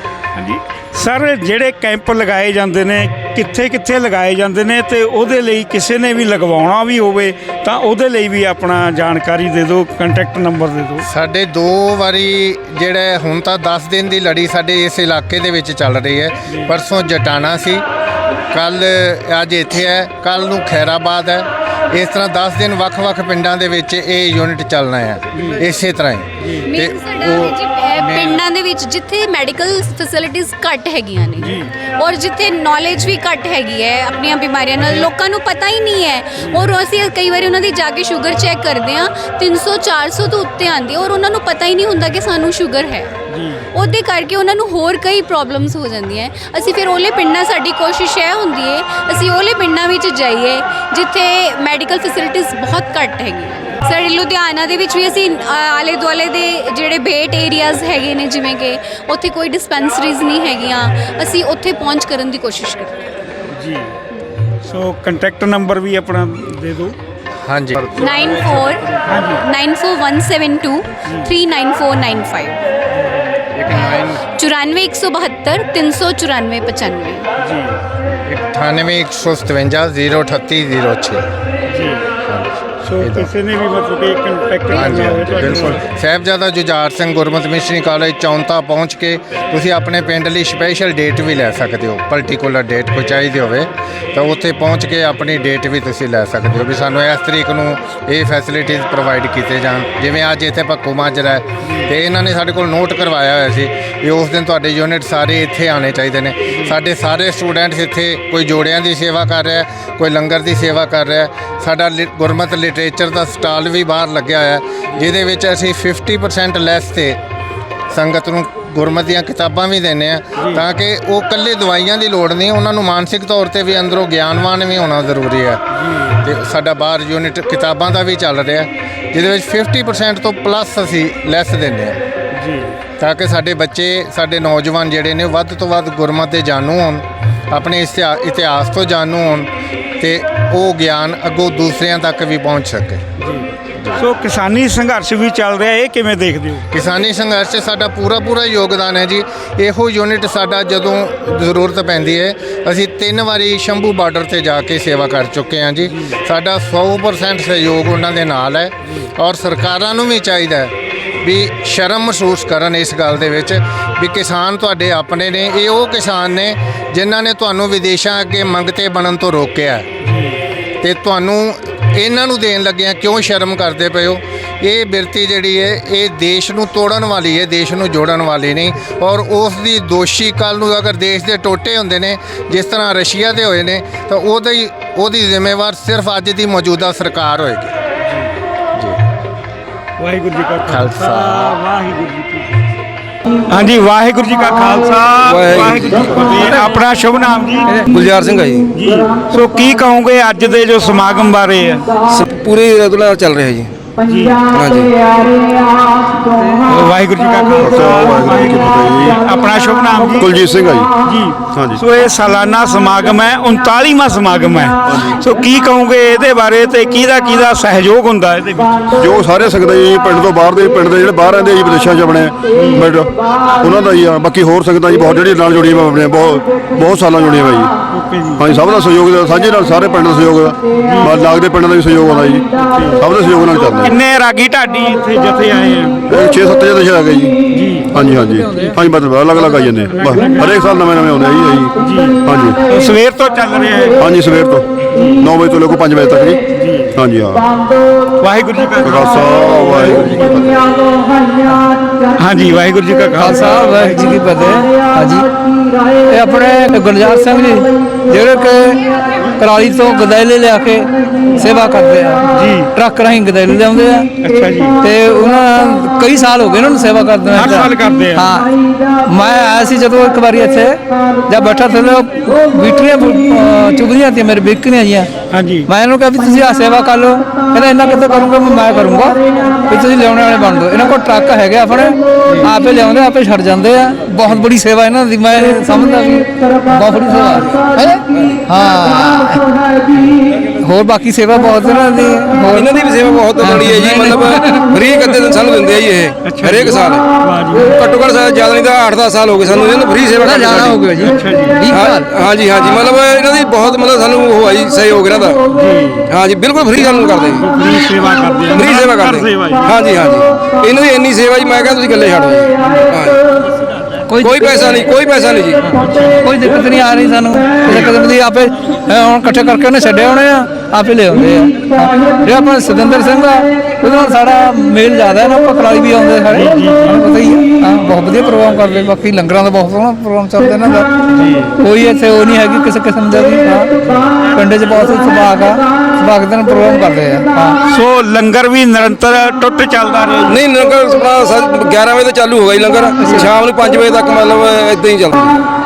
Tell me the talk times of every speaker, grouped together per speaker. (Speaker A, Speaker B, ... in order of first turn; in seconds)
Speaker A: 0.3-11.1, 25.3-25.7, 26.4-26.7, 31.4-31.7, 34.8-35.1, 36.4-36.7, 43.3-43.7, 63.5-64.0, 64.6-67.0, 69.0-69.4, 71.1-71.3, 72.9-73.4, 77.4-77.8, 81.7-82.1, 82.8-85.9, 101.6-101.9, 106.5-106.8, 120.4-120.6, 125.7-126.2, 132.3-132.8, 143.2-146.7, 155.8-156.2, 170.0-170.4, 188.0-188.3, 190.0-192.6, 193.5-197.7, 198.7-201.9, 204.0-204.4, 206.7-210.3, 211.0-218.9, 222.5-222.8, 227.9-228.4, 230.8-231.2, 232.6-236.1, 237.5-237.9, 239.9-240.6, 241.8-244.0, 244.9-245.2, 246.5-246.9, 248.2-250.3, 252.2-254.6, 262.3-262.7, 264.2-264.8, 267.3-268.2, 275.3-275.7, 296.2-297.8, 301.0-301.6, 305.5-306.1, 307.3-309.6, 312.6-312.9, 315.7-316.0, 326.3-327.0, 331.1-331.5, 337.7-340.4, 343.0-343.3
Speaker B: 11.0-17.8, 18.5-28.4, 67.4-68.1, 73.5-74.2, 78.2-81.2, 82.3-83.3, 84.7-117.2, 117.9-132.0, 133.0-143.0, 143.8-144.0, 146.7-169.9, 170.8-187.7, 188.7-189.0, 190.7-191.5
Speaker C: 26.6-43.1, 43.7-63.0, 67.9-72.6, 73.7-77.3
Speaker D: 195.2-196.5, 197.8-198.7, 202.1-203.7, 204.5-204.9, 292.5-300.9, 301.7-305.4, 306.1-307.4, 308.6-313.2, 314.2-315.6, 317.6-317.9, 340.3-345.4
Speaker E: 206.3-206.7, 238.0-238.8, 251.5-251.7, 253.2-255.3, 256.1-258.8, 259.4-264.1, 264.8-268.5, 269.1-275.1, 275.7-289.5, 290.6-292.7, 293.4-294.6, 300.2-302.1, 314.1-314.8, 315.7-330.9, 331.6-337.6
Speaker F: 207.6-209.2, 210.2-210.9, 211.5-211.8, 214.8-215.2, 219.0-227.7, 228.4-232.5, 233.0-234.0, 236.1-237.3, 237.9-242.6, 244.0-244.6, 245.2-246.4, 246.9-247.4, 248.8-250.6